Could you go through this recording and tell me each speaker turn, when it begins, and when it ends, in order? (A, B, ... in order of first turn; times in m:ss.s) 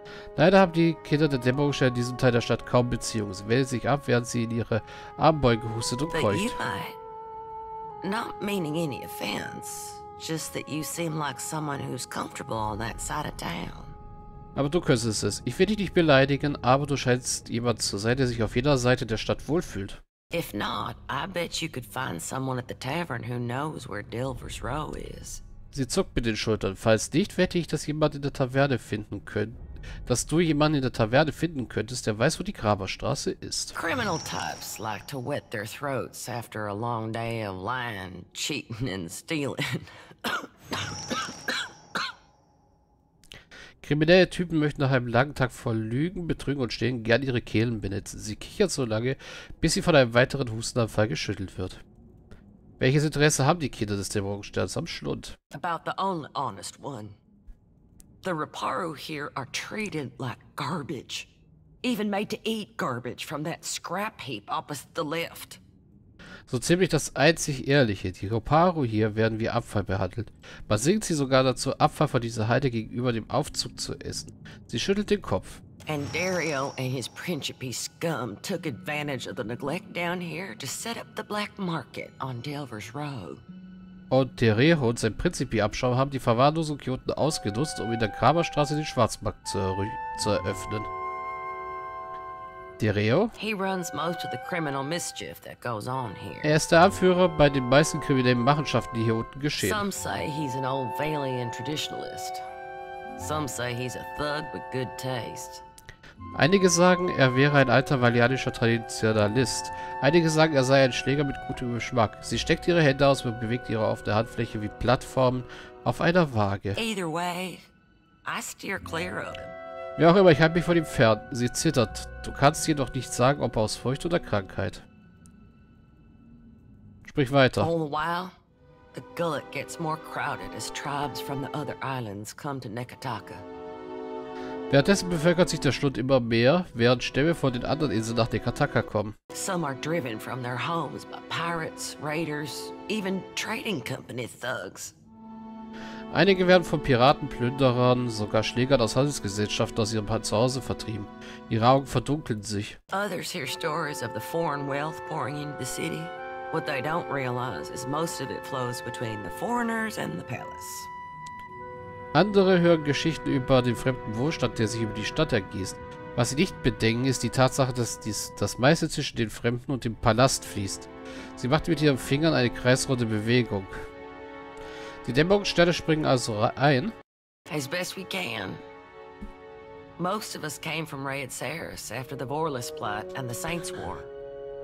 0:00.4-0:06.6 A
0:06.1-0:07.0 B
0:08.0-0:14.0 B
0:14.5-0:20.0 A
0:20.3-0:25.4 B
0:25.7-0:33.8 A
0:33.8-0:41.2 B
0:43.8-0:51.8 A
0:52.8-0:55.4 A
0:55.5-0:57.2 B
0:58.2-1:01.3 B
1:01.8-1:05.6 B
1:06.5-1:15.6 A
1:15.9-1:23.4 B
1:24.1-1:30.9 A
1:32.8-1:33.3 A
1:33.4-1:36.5 B
1:36.4-1:39.8 A
1:39.6-1:42.4 B
1:43.2-1:45.6 B
1:46.3-1:56.8 A
1:56.8-1:57.6 B
1:58.2-1:59.6 B
2:00.0-2:04.8 A
2:07.0-2:07.7 A
2:07.6-2:08.3 B
2:08.9-2:13.4 B
2:14.7-2:19.2 A
2:19.3-2:25.0 B
2:26.1-2:32.8 A
2:32.9-2:40.9 B
2:42.1-2:53.8 A
2:55.0-2:56.9 A
2:57.5-2:58.6 B
3:00.0-3:04.1 B